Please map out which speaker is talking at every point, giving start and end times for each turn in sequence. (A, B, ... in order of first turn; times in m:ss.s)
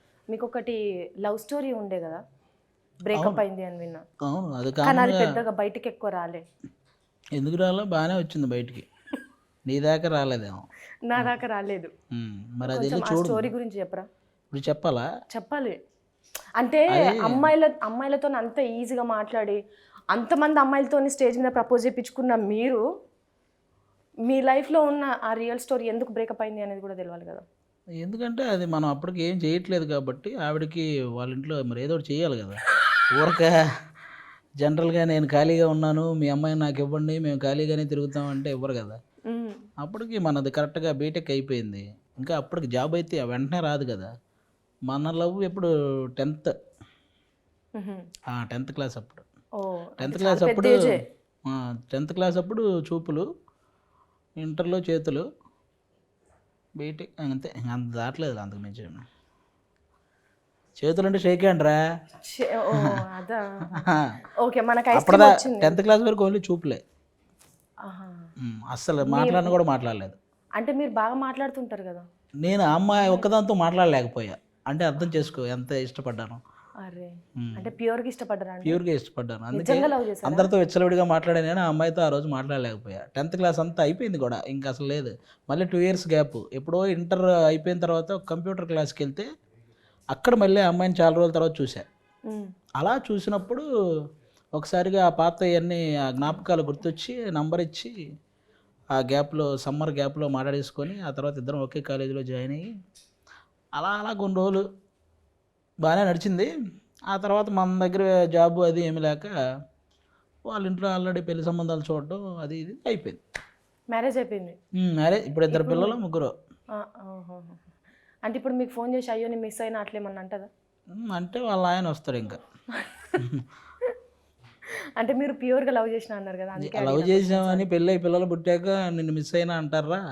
0:00.3-0:02.2 A
0:03.0-0:04.0 A
0:03.2-0:03.4 B
0:04.3-0:05.2 B
0:04.8-0:06.4 A
0:07.4-0:08.9 B
0:09.7-0:10.6 B
0:11.1-0:11.9 A
0:12.1-0:13.5 B
0:12.7-0:14.0 A
0:14.5-0:15.0 B
0:15.3-0:15.8 A
0:16.6-0:19.6 A
0:17.0-0:17.5 B
0:20.1-0:22.8 A
0:24.3-0:27.4 A
0:28.0-0:32.6 B
0:33.1-0:33.6 B
0:34.6-0:39.0 B
0:39.3-0:39.6 A
0:39.8-0:44.1 B
0:44.9-0:46.5 B
0:47.8-0:48.0 A
0:48.3-0:49.2 B
0:49.6-0:51.0 A
0:50.0-0:50.8 B
0:51.5-0:53.2 B
0:54.4-0:55.2 B
0:56.8-0:59.0 B
1:00.8-1:01.8 B
1:02.2-1:03.9 A
1:03.7-1:04.0 B
1:04.4-1:05.8 A
1:04.9-1:06.8 B
1:07.9-1:08.2 A
1:08.4-1:10.2 B
1:09.0-1:09.6 A
1:10.6-1:12.0 A
1:12.4-1:16.4 B
1:13.0-1:13.2 A
1:15.0-1:15.4 A
1:16.8-1:18.8 A
1:17.4-1:17.7 B
1:18.6-1:29.2 B
1:19.5-1:20.5 A
1:30.1-1:31.8 B
1:32.8-1:33.6 B
1:34.6-1:37.9 B
1:38.9-1:42.7 B
1:43.8-1:44.6 B
1:45.8-1:46.5 B
1:47.1-1:49.3 B
1:50.5-1:53.2 B
1:53.9-1:54.6 A
1:54.8-1:56.3 B
1:55.5-1:56.0 A
1:56.8-1:57.6 A
1:58.2-2:00.5 A
2:00.9-2:02.4 B
2:02.7-2:03.1 A
2:03.2-2:03.4 B
2:05.0-2:07.7 A
2:06.6-2:10.0 B